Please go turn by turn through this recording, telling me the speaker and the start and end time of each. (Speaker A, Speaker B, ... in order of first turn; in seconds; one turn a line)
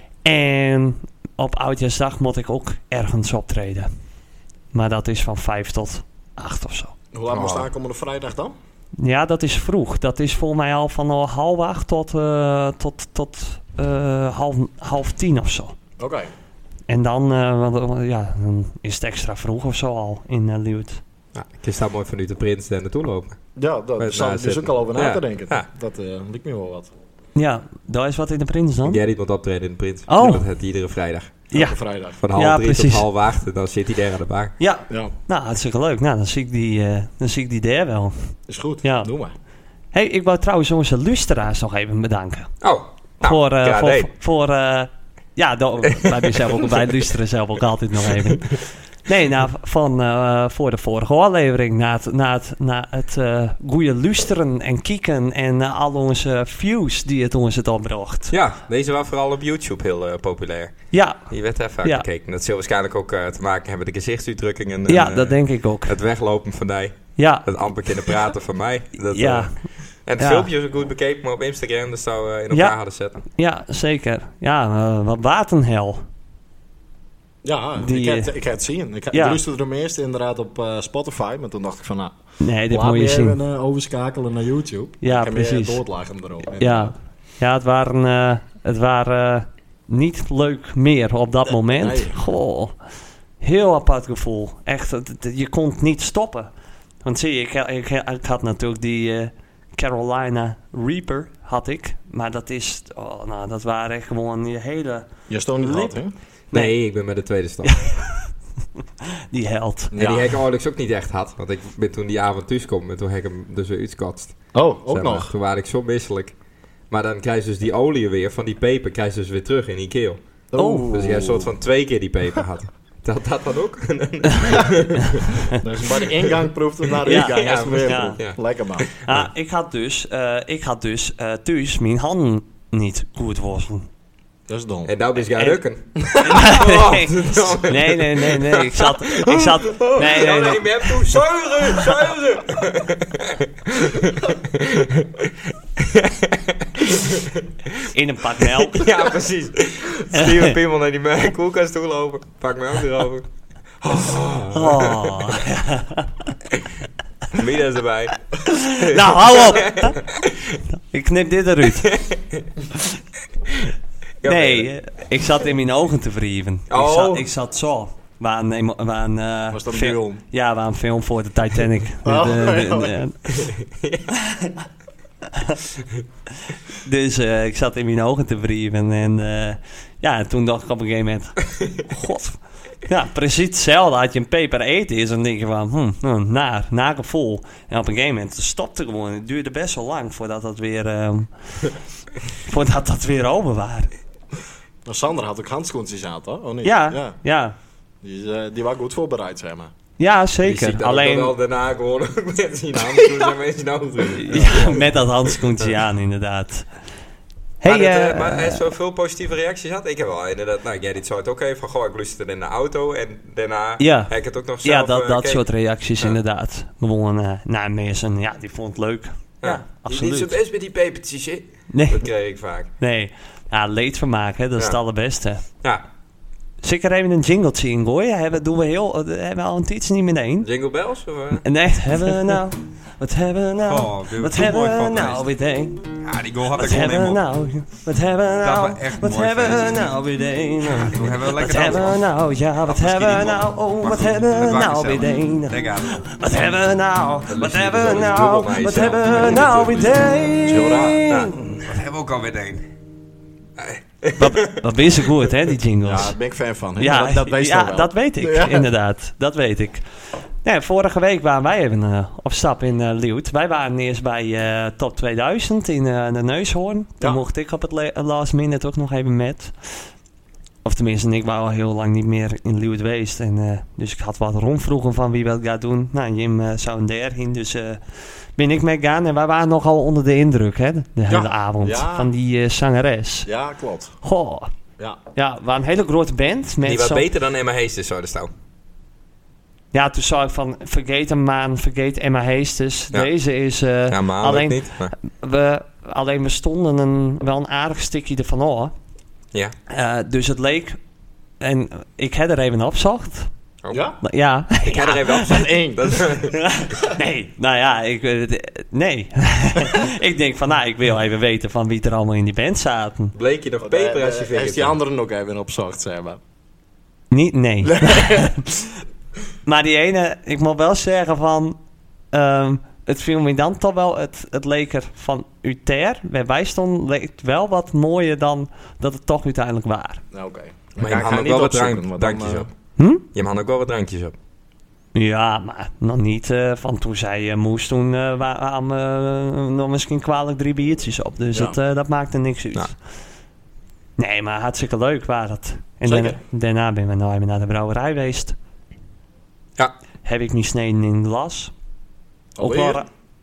Speaker A: 0.2-3.9
Speaker A: 4.7-6.9
Speaker B: 7.1-8.5
Speaker C: 7.3-7.7
Speaker A: 9.0-15.8
Speaker B: 16.0-16.3
Speaker A: 16.9-21.0
Speaker C: 21.3-23.4
Speaker B: 23.6-26.9
Speaker C: 24.0-25.7
Speaker A: 27.4-29.0
Speaker C: 28.8-31.4
Speaker A: 30.1-30.4
Speaker B: 31.5-32.2
Speaker C: 32.2-34.5
Speaker A: 32.3-33.0
Speaker A: 34.6-39.1
Speaker B: 38.5-39.3
Speaker A: 39.9-42.5
Speaker C: 42.6-44.1
Speaker A: 43.2-58.3
Speaker C: 46.1-46.7
Speaker C: 58.3-69.5
Speaker A: 60.9-61.2
Speaker A: 64.9-65.9
Speaker A: 67.2-67.5
Speaker A: 69.1-69.5
Speaker C: 70.0-73.2
Speaker A: 70.2-70.5
Speaker A: 73.3-76.0
Speaker B: 77.4-82.1
Speaker A: 77.8-78.3
Speaker A: 79.1-79.4
Speaker A: 82.4-83.4
Speaker B: 82.7-86.9
Speaker A: 85.0-85.8
Speaker A: 86.6-92.8
Speaker B: 91.7-92.2
Speaker A: 93.4-96.5
Speaker A: 97.0-105.1
Speaker B: 105.3-106.1
Speaker A: 105.6-106.0
Speaker C: 106.5-107.7
Speaker A: 107.6-108.3
Speaker A: 109.0-109.9
Speaker B: 109.9-110.3
Speaker C: 109.9-114.4
Speaker B: 114.5-115.3
Speaker C: 114.9-116.3
Speaker C: 116.9-120.2
Speaker B: 120.5-121.5
Speaker A: 120.6-120.9
Speaker C: 120.9-125.4
Speaker B: 125.6-128.9
Speaker C: 127.0-129.3
Speaker A: 127.0-128.2
Speaker A: 129.0-133.9
Speaker B: 134.5-134.9
Speaker C: 134.8-147.8
Speaker A: 136.2-141.0
Speaker A: 147.9-148.9
Speaker C: 148.5-153.3
Speaker A: 150.1-150.5
Speaker C: 153.8-155.4
Speaker A: 154.5-156.2
Speaker C: 157.3-160.6
Speaker A: 158.4-160.0
Speaker A: 160.7-161.9
Speaker C: 161.8-162.4
Speaker C: 164.2-164.7
Speaker A: 164.2-173.2
Speaker C: 166.7-167.3
Speaker B: 169.5-170.2
Speaker B: 172.0-173.0
Speaker C: 173.3-174.1
Speaker A: 174.1-174.6
Speaker A: 175.3-175.6
Speaker A: 176.7-191.7
Speaker A: 192.4-193.9
Speaker B: 194.8-197.2
Speaker A: 196.6-197.5
Speaker B: 198.0-199.7
Speaker A: 200.0-201.3
Speaker C: 200.4-205.7
Speaker A: 204.2-206.7
Speaker A: 207.6-208.6
Speaker C: 207.6-215.4
Speaker A: 213.8-214.1
Speaker A: 214.6-220.3
Speaker C: 219.4-222.7
Speaker A: 221.7-222.0
Speaker A: 222.8-225.4
Speaker A: 226.6-230.5
Speaker C: 230.4-231.4
Speaker A: 231.4-235.9
Speaker C: 233.7-235.2
Speaker C: 236.0-237.2
Speaker A: 236.5-251.7
Speaker C: 238.4-239.9
Speaker C: 240.7-242.0
Speaker C: 242.7-246.0
Speaker C: 247.3-250.0
Speaker B: 250.4-251.1
Speaker C: 251.1-252.7
Speaker C: 253.6-254.6
Speaker A: 254.2-256.1
Speaker B: 255.8-258.7
Speaker A: 256.8-259.8
Speaker A: 260.4-269.5
Speaker A: 270.6-277.8
Speaker A: 278.4-283.3
Speaker B: 281.1-282.1
Speaker B: 283.2-284.0
Speaker A: 284.0-284.5
Speaker A: 285.1-287.1
Speaker C: 286.6-288.3
Speaker A: 289.7-298.7
Speaker C: 293.9-294.9
Speaker A: 299.7-300.8
Speaker A: 301.4-303.3
Speaker B: 303.7-304.0
Speaker A: 304.0-305.3
Speaker C: 304.6-306.4
Speaker B: 305.2-306.0
Speaker A: 306.3-313.1
Speaker C: 313.1-314.8
Speaker B: 313.6-316.2
Speaker A: 317.1-318.7
Speaker B: 317.6-318.3
Speaker A: 319.4-321.6
Speaker A: 322.1-330.0
Speaker B: 330.1-332.5
Speaker C: 330.8-332.5
Speaker A: 332.8-333.0
Speaker C: 333.1-334.1
Speaker A: 334.9-342.7
Speaker A: 344.0-348.3
Speaker B: 345.8-346.2
Speaker A: 350.0-351.5
Speaker B: 352.4-352.8
Speaker A: 352.4-352.9